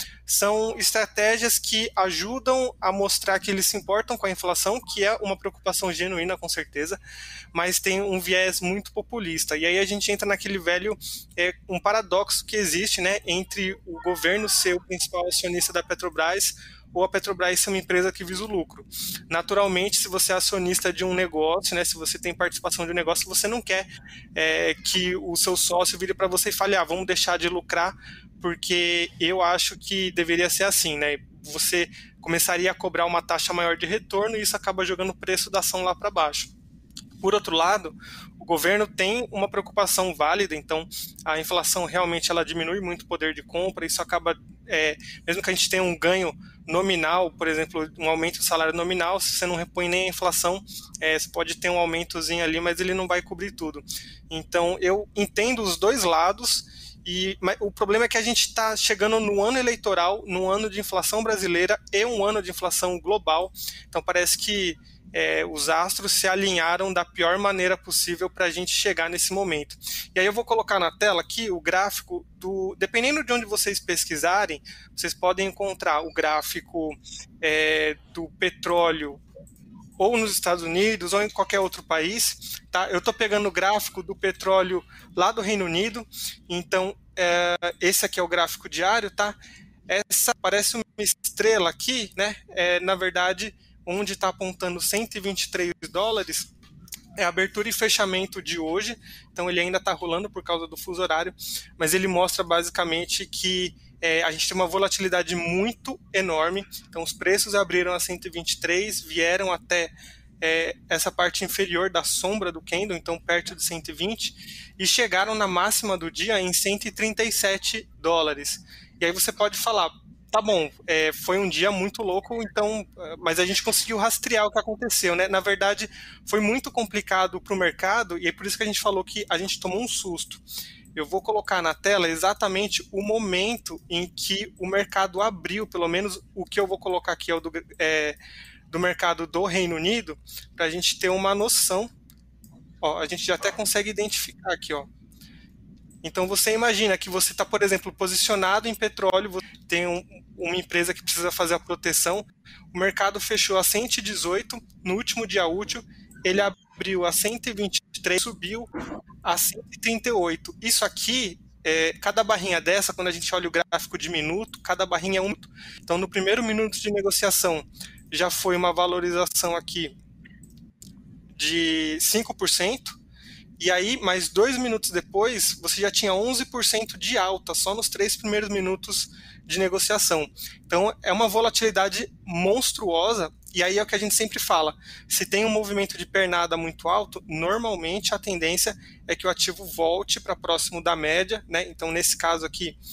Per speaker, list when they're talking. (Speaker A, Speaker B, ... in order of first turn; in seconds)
Speaker A: 0.2-7.0, 7.5-36.5, 37.2-79.2, 80.0-89.3, 89.9-96.5, 97.2-130.4, 130.9-138.2, 138.7-141.9, 142.8-144.9, 146.0-158.7, 159.2-169.9, 171.3-173.0, 173.6-192.8